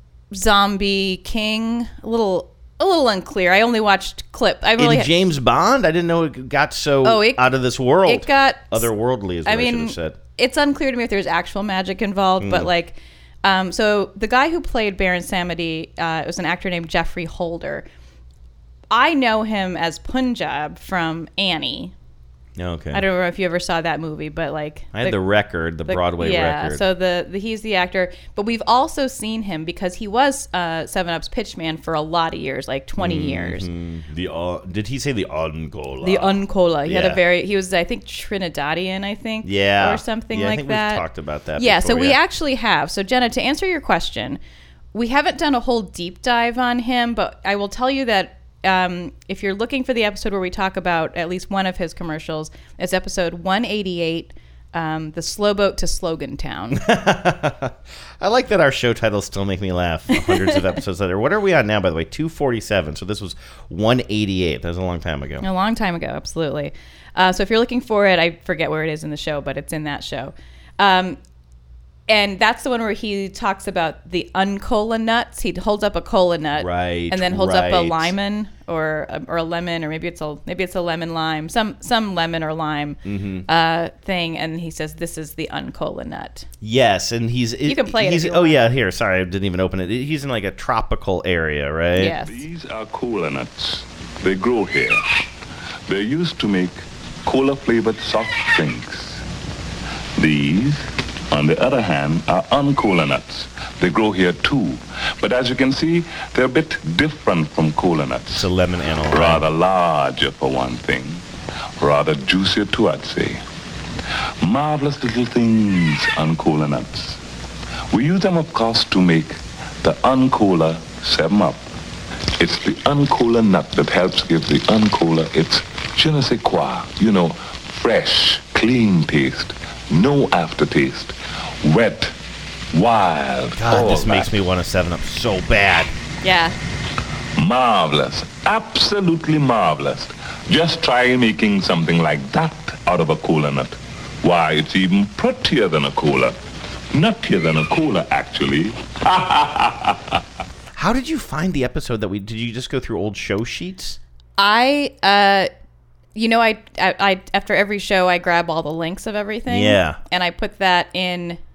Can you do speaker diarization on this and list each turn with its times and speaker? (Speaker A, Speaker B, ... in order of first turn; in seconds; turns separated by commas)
Speaker A: 0.3-5.1, Speaker B: 4.8-10.2, Speaker A: 7.0-7.5, Speaker A: 8.0-8.9, Speaker A: 9.4-17.9, Speaker B: 12.4-12.7, Speaker A: 18.9-21.9, Speaker B: 22.6-23.0, Speaker A: 22.9-25.2, Speaker B: 24.9-26.8, Speaker A: 25.9-33.7, Speaker B: 33.0-37.2, Speaker A: 36.0-41.0, Speaker B: 39.4-42.2, Speaker A: 41.6-44.4, Speaker A: 44.9-56.8, Speaker B: 56.7-65.5, Speaker A: 60.1-60.6, Speaker A: 65.4-71.2, Speaker A: 72.1-86.5, Speaker B: 76.6-78.1, Speaker B: 83.0-83.5, Speaker B: 86.6-92.2, Speaker A: 87.7-88.6, Speaker A: 91.9-92.4, Speaker C: 92.3-95.0, Speaker C: 95.9-99.2, Speaker C: 100.2-108.5, Speaker B: 108.3-109.5, Speaker C: 109.1-111.2, Speaker C: 111.8-113.4, Speaker C: 114.4-117.2, Speaker C: 117.9-121.6, Speaker C: 122.4-132.2, Speaker C: 132.7-134.3, Speaker B: 133.5-135.9, Speaker A: 136.2-136.6, Speaker C: 137.4-146.4, Speaker C: 146.9-150.2, Speaker B: 150.8-154.0, Speaker A: 154.4-155.5, Speaker A: 156.1-161.4, Speaker B: 159.5-160.0